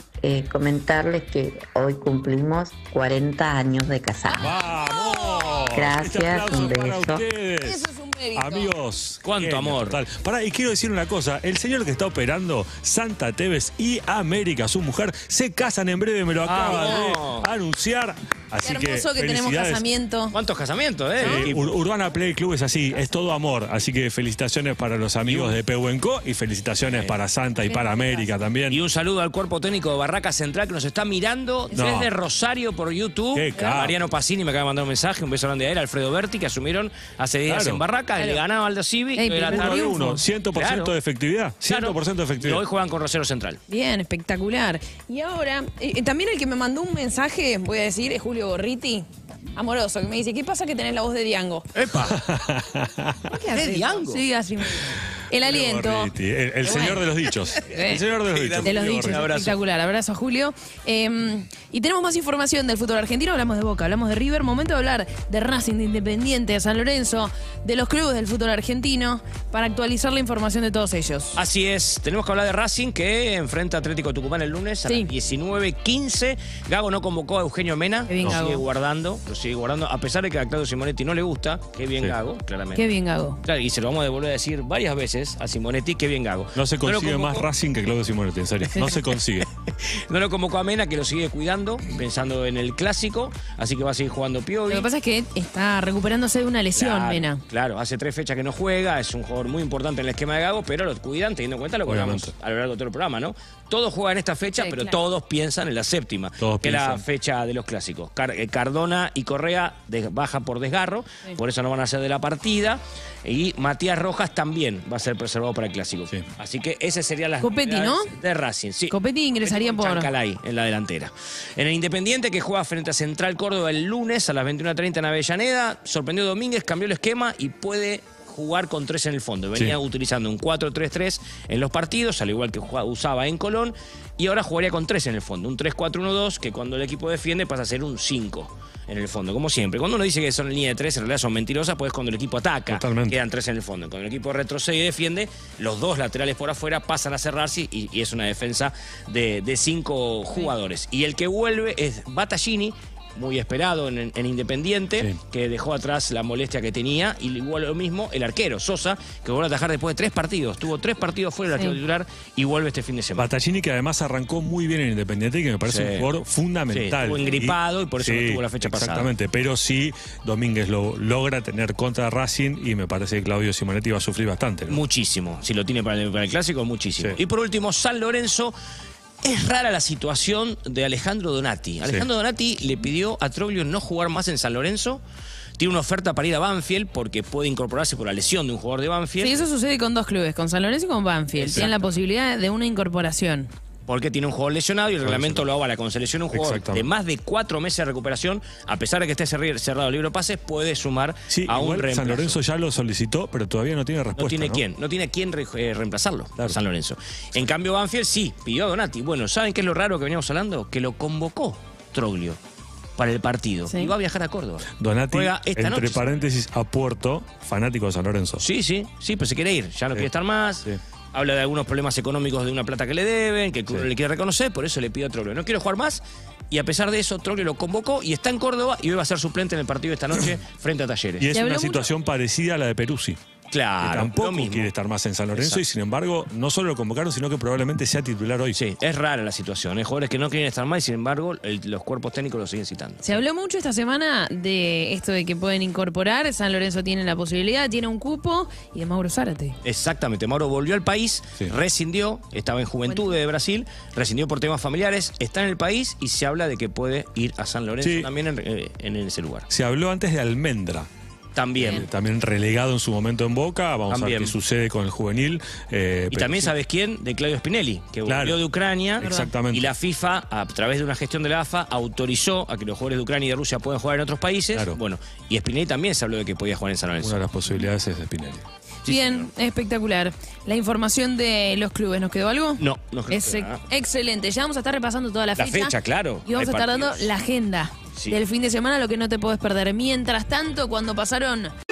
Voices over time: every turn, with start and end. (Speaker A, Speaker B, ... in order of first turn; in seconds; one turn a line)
Speaker A: 0.2-4.6
Speaker B: 4.3-5.8
Speaker C: 4.4-19.9
Speaker A: 5.7-7.3
Speaker B: 7.6-8.8
Speaker D: 9.2-10.0
Speaker D: 16.4-17.5
Speaker B: 18.6-20.4
Speaker D: 20.3-21.7
Speaker B: 21.2-21.5
Speaker C: 21.2-28.8
Speaker D: 25.2-25.6
Speaker D: 26.9-27.2
Speaker B: 27.6-28.3
Speaker D: 28.7-39.9
Speaker C: 31.8-32.1
Speaker C: 33.4-34.0
Speaker C: 37.5-37.8
Speaker B: 38.2-38.4
Speaker B: 39.2-40.2
Speaker C: 39.5-42.6
Speaker D: 40.5-41.0
Speaker D: 41.6-43.6
Speaker B: 43.7-51.7
Speaker D: 51.7-52.2
Speaker C: 52.0-53.4
Speaker B: 53.3-56.1
Speaker D: 53.5-54.2
Speaker C: 55.3-59.3
Speaker B: 56.6-57.0
Speaker D: 57.5-59.6
Speaker B: 57.7-58.0
Speaker B: 58.6-71.4
Speaker D: 71.3-82.9
Speaker B: 74.9-75.1
Speaker B: 78.1-78.7
Speaker B: 82.8-83.4
Speaker D: 83.4-87.5
Speaker C: 86.6-89.5
Speaker B: 88.7-89.0
Speaker D: 89.4-94.9
Speaker B: 94.7-97.4
Speaker D: 96.8-163.3
Speaker C: 101.9-102.3
Speaker B: 104.5-105.0
Speaker C: 106.4-107.0
Speaker B: 117.4-118.1
Speaker B: 118.9-120.1
Speaker C: 142.7-143.2
Speaker C: 163.2-174.8
Speaker D: 165.7-166.1
Speaker D: 166.7-169.1
Speaker D: 174.7-178.6
Speaker D: 179.2-185.0
Speaker D: 185.6-189.4
Speaker B: 189.2-193.5
Speaker D: 191.4-191.7
Speaker D: 193.9-202.4
Speaker C: 195.0-195.4
Speaker C: 196.3-196.9
Speaker C: 201.3-204.6
Speaker D: 204.2-212.4
Speaker D: 213.0-216.2
Speaker C: 214.8-218.4
Speaker D: 218.4-231.4
Speaker C: 231.2-233.2
Speaker B: 231.3-231.9
Speaker D: 233.5-234.7
Speaker C: 233.8-238.6
Speaker D: 235.3-235.7
Speaker D: 238.5-243.2
Speaker B: 243.0-249.6
Speaker D: 249.6-259.5
Speaker B: 252.9-253.2
Speaker C: 257.8-258.1
Speaker C: 259.5-260.9
Speaker D: 261.3-261.9
Speaker B: 261.6-261.9
Speaker C: 261.6-266.5
Speaker D: 263.9-264.4
Speaker D: 266.1-277.2
Speaker C: 268.1-268.4
Speaker C: 269.0-269.7
Speaker B: 269.0-269.3
Speaker C: 274.5-274.8
Speaker C: 277.0-278.4
Speaker D: 278.8-279.3
Speaker B: 278.9-285.8
Speaker D: 282.6-283.6
Speaker D: 285.4-287.1
Speaker B: 286.3-291.5